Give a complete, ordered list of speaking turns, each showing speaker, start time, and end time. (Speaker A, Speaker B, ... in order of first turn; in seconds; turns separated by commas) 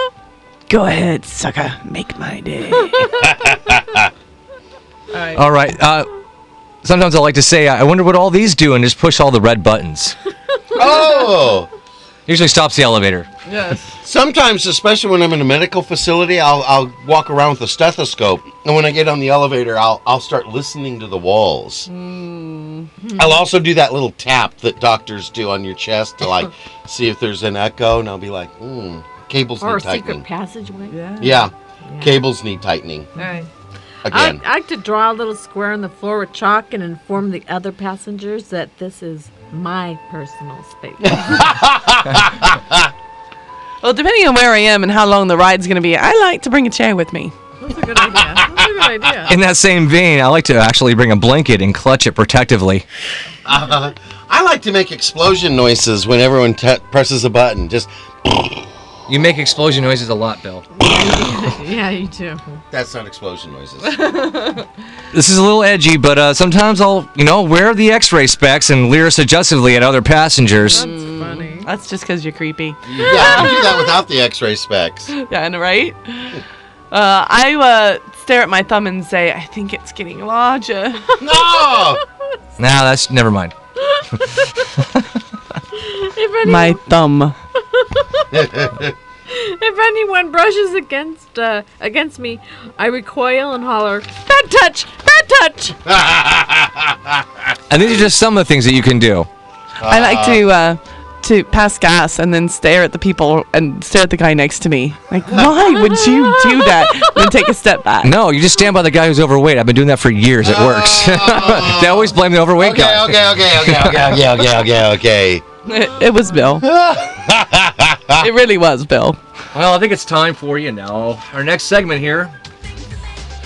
Speaker A: 0.7-3.1, Speaker B: 3.2-4.1, Speaker A: 5.1-5.4, Speaker C: 5.3-6.1, Speaker C: 6.8-10.2, Speaker B: 10.7-11.7, Speaker C: 12.3-13.3, Speaker A: 13.4-14.0, Speaker B: 14.0-21.9, Speaker A: 21.9-22.9, Speaker D: 23.0-23.3, Speaker B: 23.1-30.2, Speaker D: 29.6-31.0, Speaker A: 30.9-31.4, Speaker B: 31.2-33.1, Speaker D: 31.9-32.2, Speaker D: 33.1-33.5, Speaker A: 33.2-33.5, Speaker B: 34.0-34.4, Speaker D: 34.1-41.4, Speaker B: 41.0-42.9, Speaker A: 43.8-47.3, Speaker D: 47.6-49.4, Speaker B: 48.2-48.7, Speaker C: 49.3-52.8, Speaker B: 53.4-58.6, Speaker C: 59.1-60.6, Speaker D: 60.7-62.6, Speaker B: 62.7-64.1, Speaker A: 63.9-64.6, Speaker C: 65.1-70.8, Speaker A: 70.7-73.9, Speaker D: 70.7-71.7, Speaker B: 72.8-75.1, Speaker A: 75.1-81.0, Speaker B: 81.2-82.0, Speaker D: 81.3-81.8, Speaker C: 82.6-83.5, Speaker D: 83.9-84.5, Speaker D: 85.7-86.8, Speaker A: 86.4-87.4, Speaker D: 87.7-88.2, Speaker B: 88.3-88.9, Speaker D: 89.3-95.8, Speaker B: 95.8-97.2, Speaker C: 97.7-99.3, Speaker B: 99.8-100.4, Speaker A: 99.9-108.2, Speaker D: 105.8-107.3, Speaker C: 108.0-114.2, Speaker B: 110.4-115.4, Speaker A: 115.7-116.6, Speaker B: 116.6-118.3, Speaker A: 118.2-119.2, Speaker C: 119.5-122.3